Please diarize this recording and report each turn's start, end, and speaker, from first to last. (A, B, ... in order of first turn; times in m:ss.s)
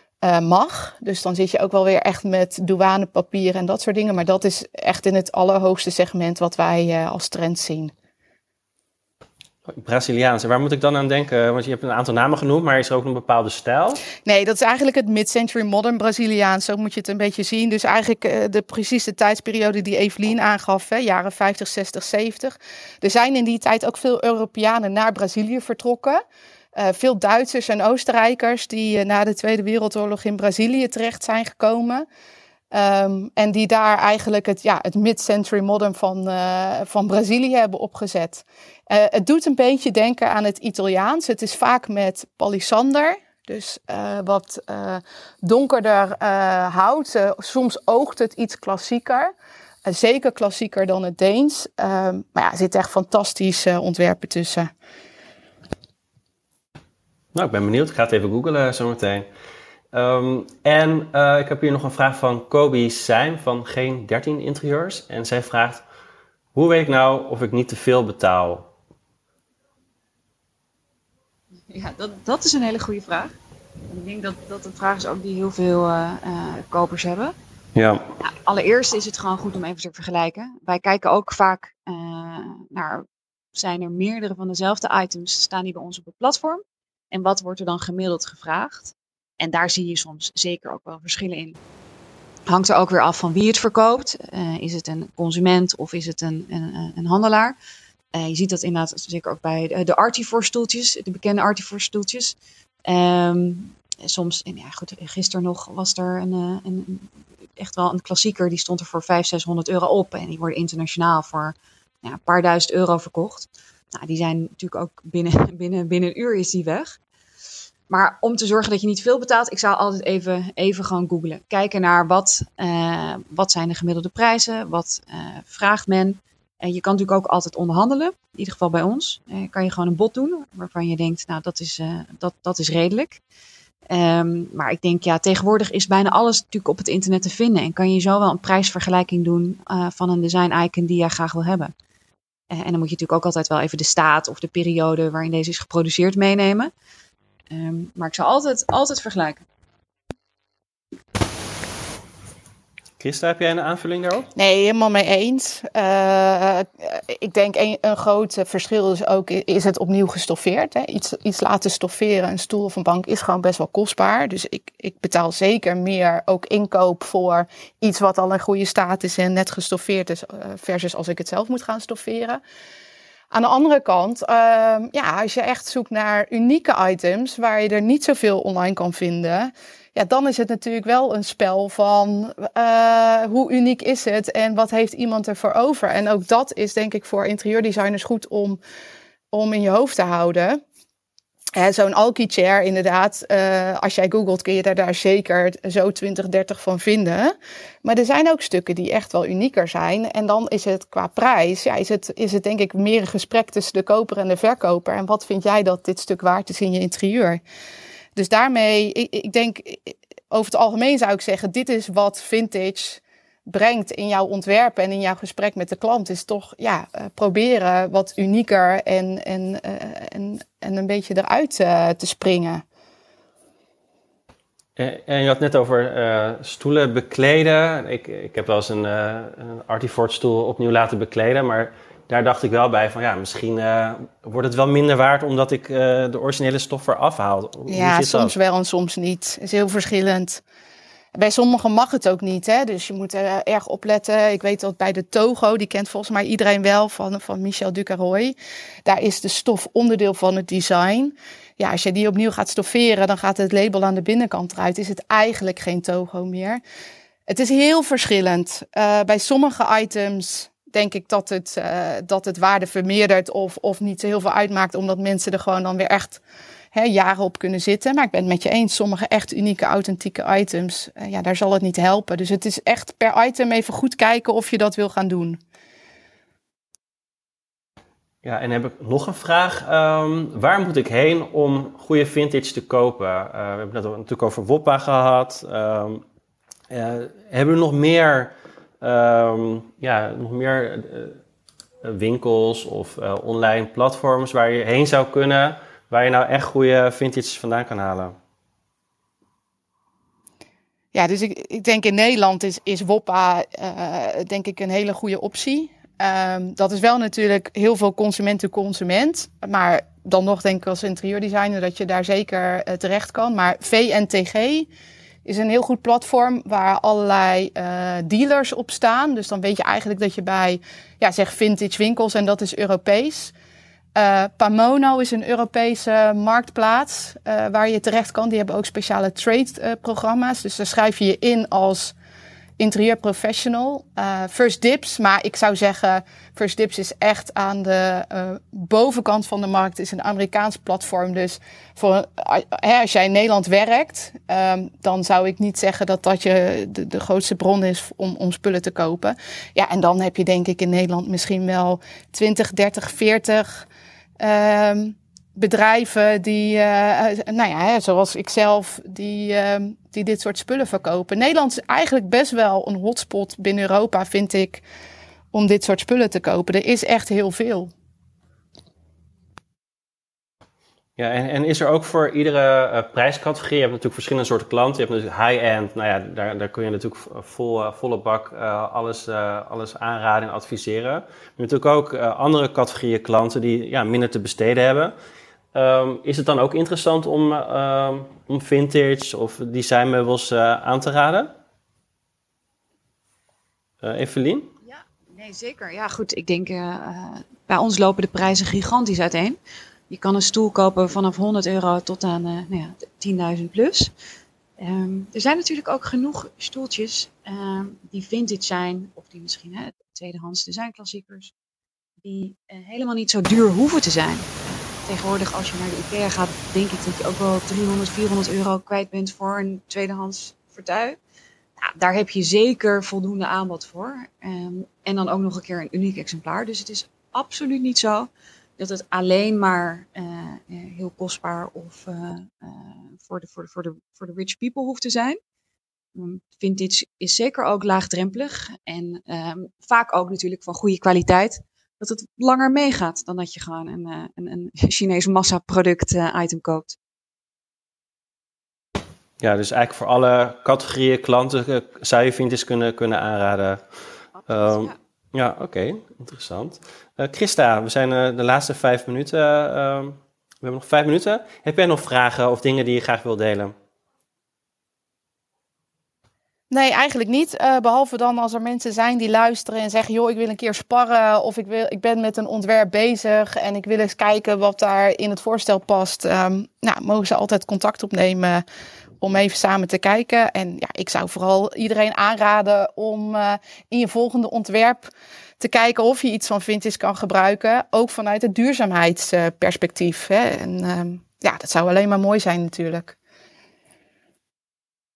0:00.2-0:07.9 A
0:09.6-0:14.0 B
0:14.2-0:26.2 A
0:26.7-0:32.0 A
0:32.7-0:49.3 A
0:49.8-0:54.7 A
0:57.3-0:59.3 B
0:59.9-1:05.8 B
1:06.5-1:08.7 B
1:11.7-1:13.3 C
1:13.9-1:17.3 C
1:17.7-1:18.0 B
1:18.2-1:31.6 C
1:32.5-1:37.6 C
1:38.1-1:57.0 C
1:57.9-2:13.2 C
2:13.9-2:21.7 C
2:22.5-2:26.7 C
2:27.5-2:29.4 C
2:33.0-2:34.3 B
2:34.4-2:52.4 A
2:53.3-3:08.6 A
3:09.3-3:10.6 A
3:11.6-3:27.4 A
3:28.2-3:42.6 A
3:44.8-3:58.3 B
3:57.7-4:00.4 A
4:01.1-4:16.6 A
4:17.3-4:26.2 A
4:26.7-4:35.4 A
4:38.2-4:46.0 B
4:46.7-4:51.2 B
4:51.8-4:58.2 B
5:00.9-5:14.7 A
5:15.2-5:23.3 A
5:23.9-5:31.9 A
5:32.6-5:53.6 A
5:54.2-6:04.6 A
6:05.3-6:07.7 A
6:11.0-6:24.9 B
6:25.5-6:31.4 B
6:33.8-6:34.5 B
6:34.6-6:39.4 C
6:39.9-6:43.9 C
6:44.6-6:51.3 C
6:52.0-7:01.0 C
7:01.6-7:15.2 C
7:15.9-7:26.8 C
7:29.2-7:33.6 B
7:34.2-7:34.7 C
7:34.3-7:43.5 B
7:46.5-7:58.4 A
7:59.0-8:13.0 A